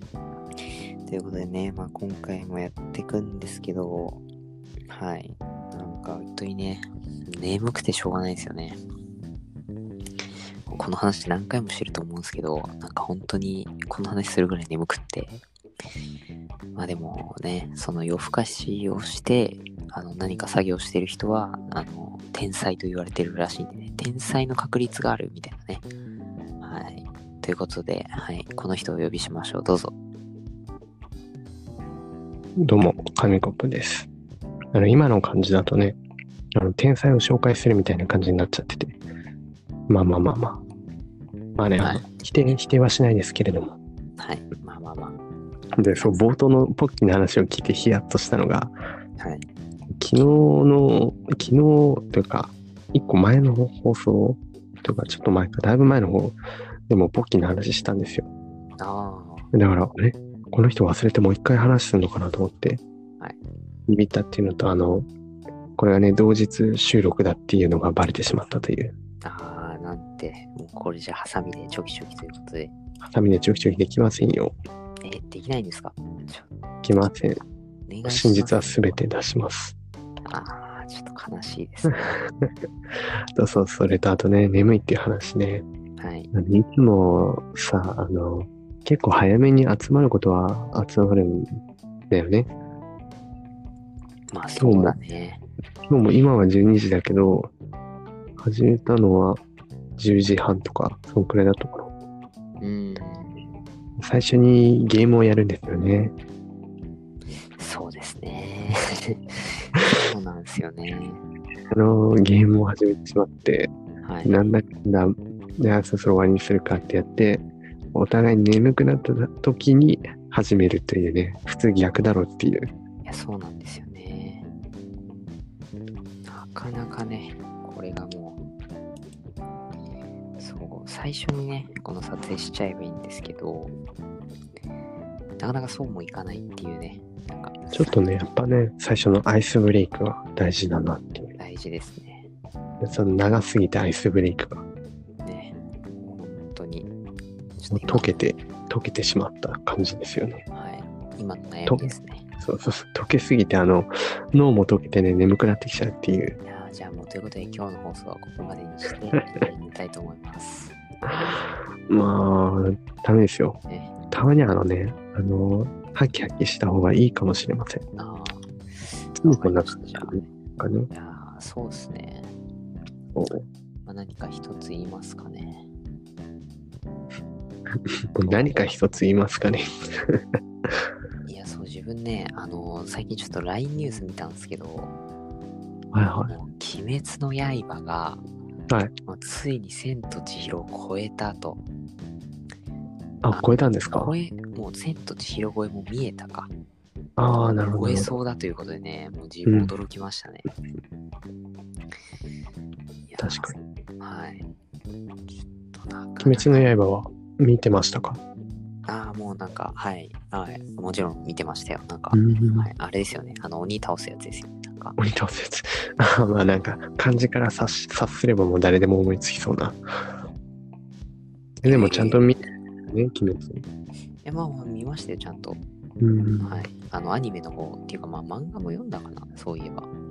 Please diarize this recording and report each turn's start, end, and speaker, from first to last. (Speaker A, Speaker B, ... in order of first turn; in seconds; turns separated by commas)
Speaker A: 0.6-4.2, Speaker A: 4.9-8.8, Speaker A: 10.7-15.4, Speaker A: 16.7-25.9, Speaker A: 26.6-29.9, Speaker B: 32.6-34.1, Speaker B: 34.7-36.0, Speaker B: 36.5-39.0, Speaker B: 39.9-40.6, Speaker B: 41.6-43.8, Speaker A: 41.8-42.2, Speaker A: 44.2-45.2, Speaker B: 45.8-48.7, Speaker A: 49.2-49.4, Speaker B: 50.0-56.4, Speaker B: 56.9-58.3, Speaker A: 58.8-59.5, Speaker B: 59.5-62.8, Speaker B: 63.9-65.1, Speaker B: 65.8-68.9, Speaker A: 69.2-72.7, Speaker B: 73.0-74.5, Speaker A: 75.0-76.5, Speaker B: 76.8-77.4, Speaker A: 77.9-78.6, Speaker B: 78.0-79.8, Speaker A: 80.2-82.2, Speaker B: 81.9-82.5, Speaker B: 83.3-85.7, Speaker A: 86.0-86.3, Speaker B: 86.3-91.5, Speaker B: 92.1-92.5, Speaker A: 94.3-95.4, Speaker B: 94.5-95.0, Speaker B: 95.9-97.5, Speaker B: 98.4-99.4, Speaker B: 100.0-101.9, Speaker A: 102.6-103.4, Speaker B: 104.0-106.1, Speaker A: 107.5-111.2, Speaker B: 111.7-113.7, Speaker A: 114.0-114.5, Speaker B: 114.2-122.7, Speaker A: 123.0-124.5, Speaker A: 126.2-128.4, Speaker A: 130.4-133.7, Speaker A: 135.4-138.2, Speaker B: 137.7-141.3, Speaker A: 141.4-142.3, Speaker B: 142.8-144.6, Speaker A: 145.2-146.9, Speaker A: 147.6-148.2, Speaker B: 147.7-150.4, Speaker A: 150.5-152.2, Speaker B: 151.7-156.4, Speaker A: 156.4-160.8, Speaker B: 161.9-163.6, Speaker A: 163.7-163.9, Speaker B: 164.1-167.8, Speaker A: 167.9-170.3, Speaker B: 169.2-170.9, Speaker A: 170.9-172.3, Speaker B: 173.1-173.4, Speaker A: 173.8-175.7, Speaker B: 178.1-180.2, Speaker A: 181.2-184.9, Speaker B: 185.9-186.3, Speaker A: 186.3-188.2, Speaker A: 189.1-191.6, Speaker B: 193.2-194.2, Speaker A: 193.3-196.5, Speaker B: 197.2-198.1, Speaker A: 197.7-200.5, Speaker B: 199.4-199.7, Speaker A: 203.1-204.5, Speaker B: 203.2-203.5, Speaker A: 205.7-206.7, Speaker B: 206.2-208.2, Speaker A: 208.8-215.0, Speaker B: 212.1-212.7, Speaker B: 215.0-219.8, Speaker A: 221.6-222.3, Speaker B: 221.6-223.6, Speaker A: 224.2-225.6, Speaker B: 226.0-226.7, Speaker A: 226.4-229.9